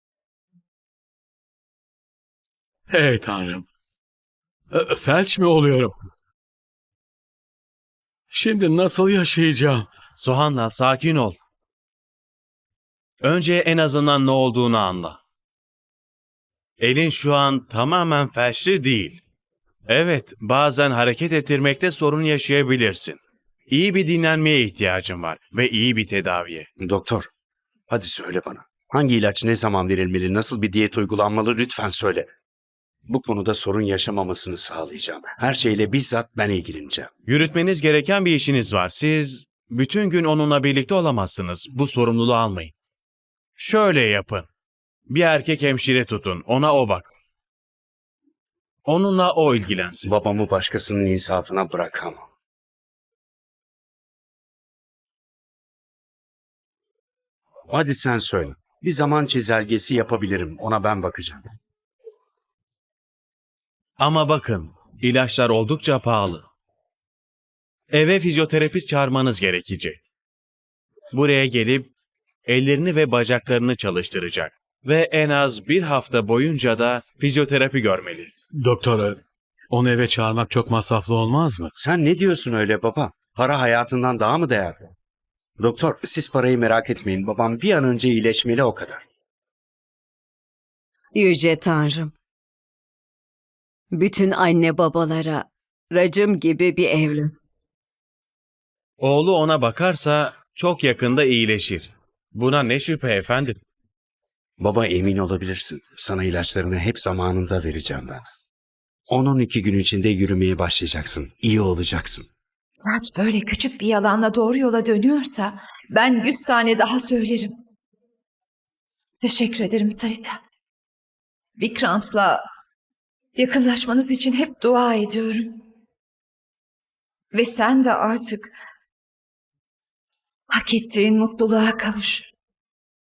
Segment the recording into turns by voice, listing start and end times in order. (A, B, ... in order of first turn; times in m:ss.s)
0:02.9-0:03.7 A
0:04.7-0:06.0 A
0:08.3-0:09.9 A
0:10.2-0:11.4 B
0:13.2-0:15.2 B
0:16.8-0:19.2 B
0:19.9-0:23.2 B
0:23.7-0:26.7 B
0:26.8-0:27.3 C
0:27.9-0:32.3 C
0:33.1-0:37.1 C
0:37.3-0:42.7 B
0:43.6-0:44.5 B
0:45.1-0:47.1 B
0:48.9-0:50.1 B
0:50.0-0:52.2 C
0:57.7-1:01.5 C
1:04.0-1:06.4 B
1:07.9-1:10.0 B
1:11.1-1:11.9 B
1:12.5-1:18.3 B
1:18.6-1:21.7 A
1:21.8-1:24.9 C
1:25.6-1:29.0 C
1:31.1-1:32.1 D
1:33.9-1:37.4 D
1:39.0-1:43.6 B
1:44.6-1:48.2 C
1:49.1-1:52.3 C
1:52.8-1:57.6 E
1:59.2-2:00.4 E
2:01.6-2:02.4 E
2:03.4-2:05.5 E
2:07.3-2:08.5 E
2:10.5-2:12.3 E